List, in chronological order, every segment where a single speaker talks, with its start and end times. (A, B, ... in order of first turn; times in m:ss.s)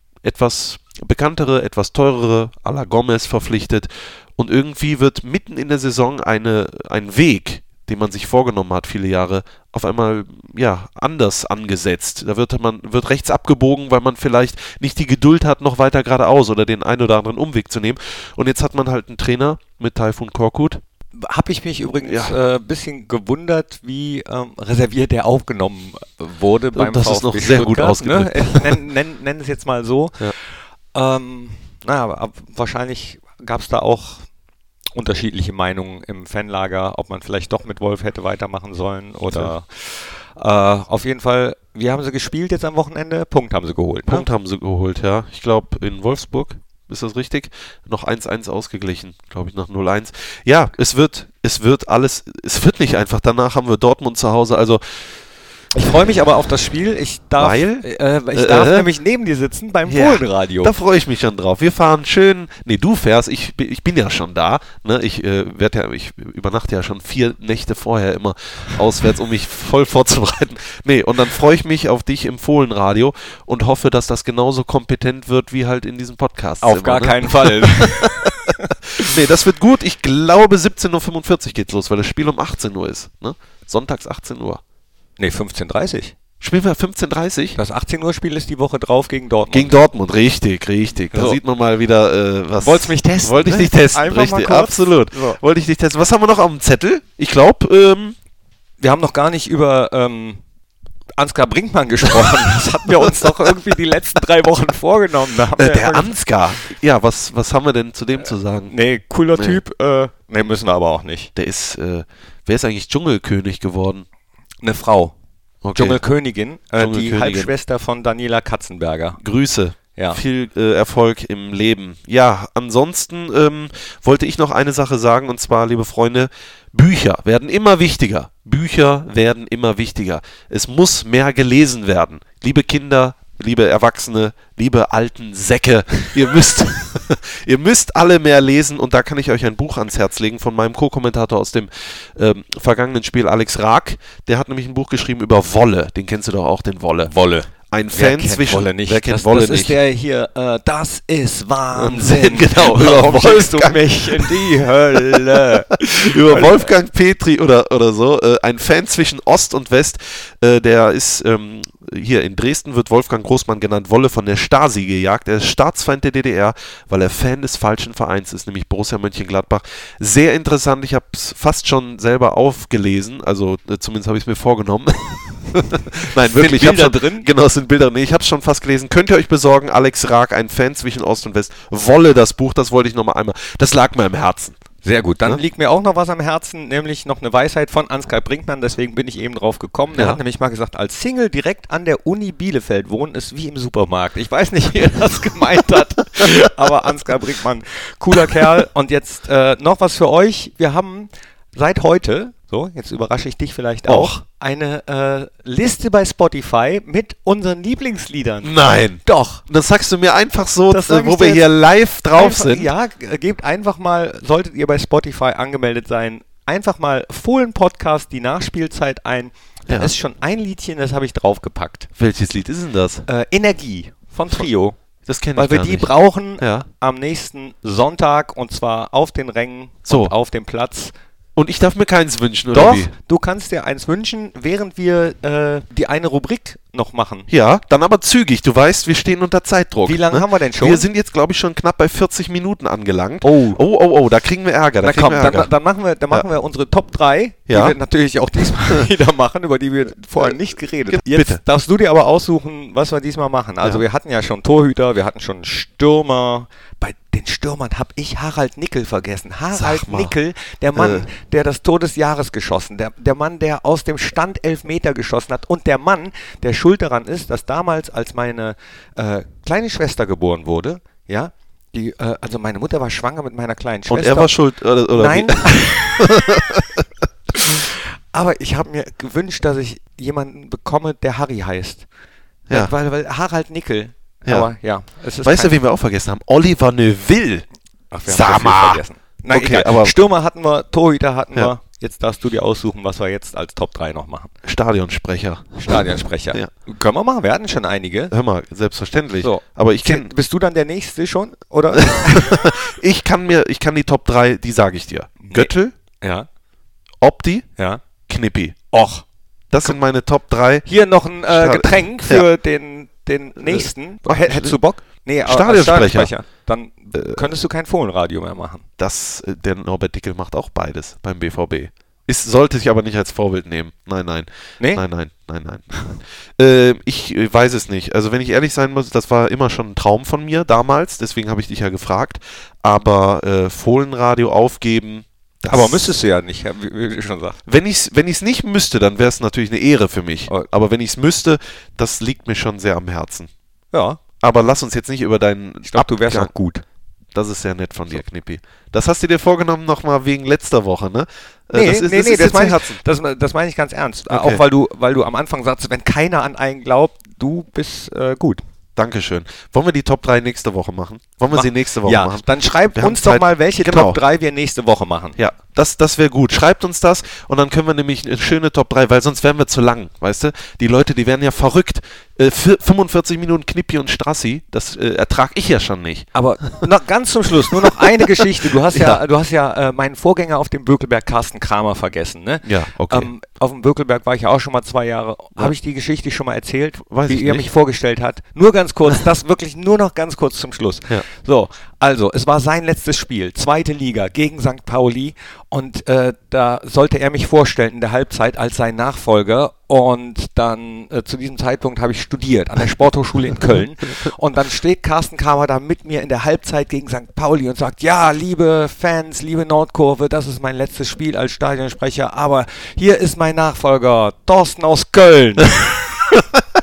0:00.2-0:20.8 A
0:21.2-0:34.3 B
0:22.0-0:22.4 A
0:26.7-0:28.8 A
0:35.0-0:44.3 B
0:44.1-0:54.8 A
0:55.8-1:00.7 B
0:57.4-0:58.9 A
0:59.9-1:24.6 A
1:16.6-1:19.1 B
1:25.2-1:26.2 B
1:26.4-1:27.6 A
1:27.6-1:29.8 B
1:29.5-1:38.2 A
1:31.1-1:31.4 B
1:32.6-1:35.4 B
1:38.8-1:40.4 B
1:41.2-1:46.2 B
1:45.6-1:48.8 A
1:48.7-1:51.3 B
1:49.4-1:49.6 A
1:51.4-1:54.1 A
1:54.6-1:55.1 B
1:55.6-1:56.0 A
1:55.7-1:59.2 B
1:56.8-1:57.5 A
1:59.2-2:27.1 A
2:00.0-2:00.2 B
2:27.0-2:36.6 B
2:27.7-2:29.8 A
2:31.7-3:04.6 A
2:56.2-2:57.3 B
3:04.8-3:29.4 B
3:09.9-3:10.2 A
3:23.9-3:24.2 A
3:28.4-3:32.7 A
3:30.7-3:31.5 B
3:32.2-3:41.9 B
3:39.7-3:39.9 A
3:42.0-3:43.1 A
3:43.1-3:44.8 B
3:45.1-3:46.7 A
3:45.4-3:50.9 B
3:49.9-3:50.1 A
3:51.4-3:52.9 A
3:52.5-3:57.3 B
3:57.3-4:05.5 A
3:59.9-4:00.9 B
4:03.2-4:03.6 B
4:04.8-4:34.3 B
4:07.5-4:07.8 A
4:10.9-4:11.4 A
4:19.5-4:20.2 A
4:20.8-4:21.1 A
4:33.9-4:37.0 A
4:34.9-4:36.6 B
4:37.4-4:41.9 B
4:42.5-4:45.6 B
4:44.3-4:44.5 A
4:45.2-4:47.5 A
4:47.9-4:54.3 B
4:48.1-4:50.0 A
4:54.4-4:56.5 A
4:55.6-4:58.1 B
4:58.1-5:00.1 A
4:59.2-5:02.4 B
5:01.8-5:05.8 A
5:05.2-5:06.3 B
5:07.0-5:07.5 A
5:07.6-5:07.8 B
5:08.1-5:08.6 A
5:08.7-5:09.0 B
5:09.5-5:10.7 A
5:10.7-5:18.6 B
5:11.3-5:12.3 A
5:13.4-5:14.6 A
5:15.2-5:16.1 A
5:16.9-5:17.2 A
5:18.8-5:25.7 A
5:26.4-5:36.0 A
5:35.5-5:37.4 B
5:37.5-5:43.3 A
5:43.7-5:44.0 B
5:44.2-5:46.3 A
5:45.6-5:46.6 B
5:47.1-5:52.8 A
5:51.5-5:58.4 B
5:54.1-5:54.4 A
5:58.8-6:04.0 A
6:01.3-6:05.2 B
6:05.2-6:16.1 A
6:16.1-6:56.2 B
6:17.6-6:17.9 A
6:18.7-6:19.0 A
6:22.4-6:23.1 A
6:26.9-6:27.5 A